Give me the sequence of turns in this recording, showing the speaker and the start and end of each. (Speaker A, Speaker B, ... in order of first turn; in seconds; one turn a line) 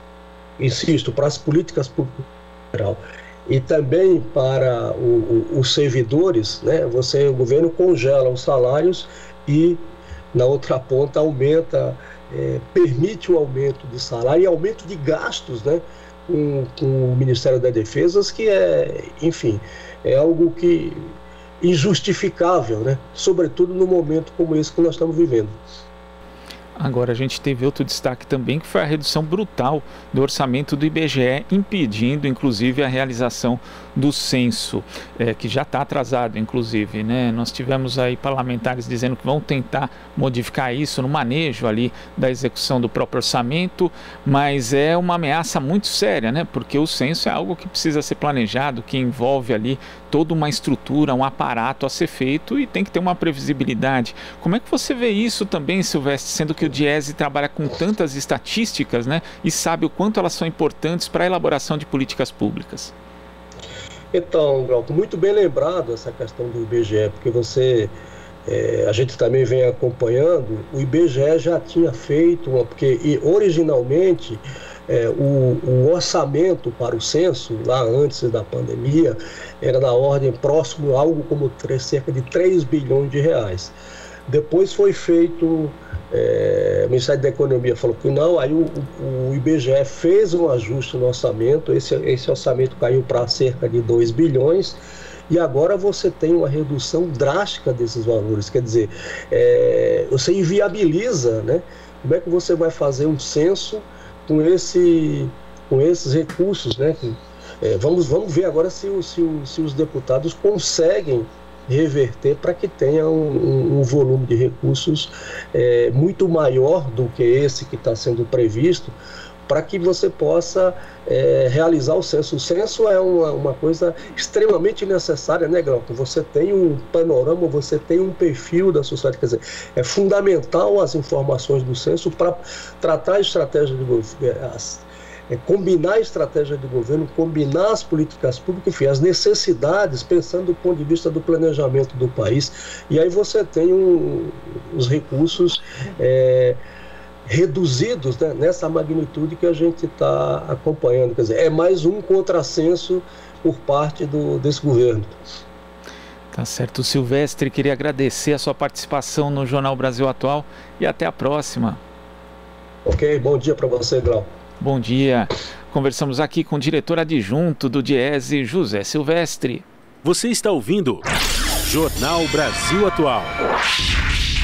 Speaker A: 0.6-25.6
Speaker B: 26.8-62.9
Speaker A: 64.1-67.9
Speaker A: 68.5-83.8
Speaker A: 84.3-94.8
Speaker A: 95.3-119.0
Speaker A: 119.5-146.6
Speaker A: 147.2-155.2
Speaker B: 156.3-161.8
Speaker A: 162.8-164.3
Speaker B: 164.6-169.7
Speaker C: 170.0-171.1
Speaker C: 171.6-173.4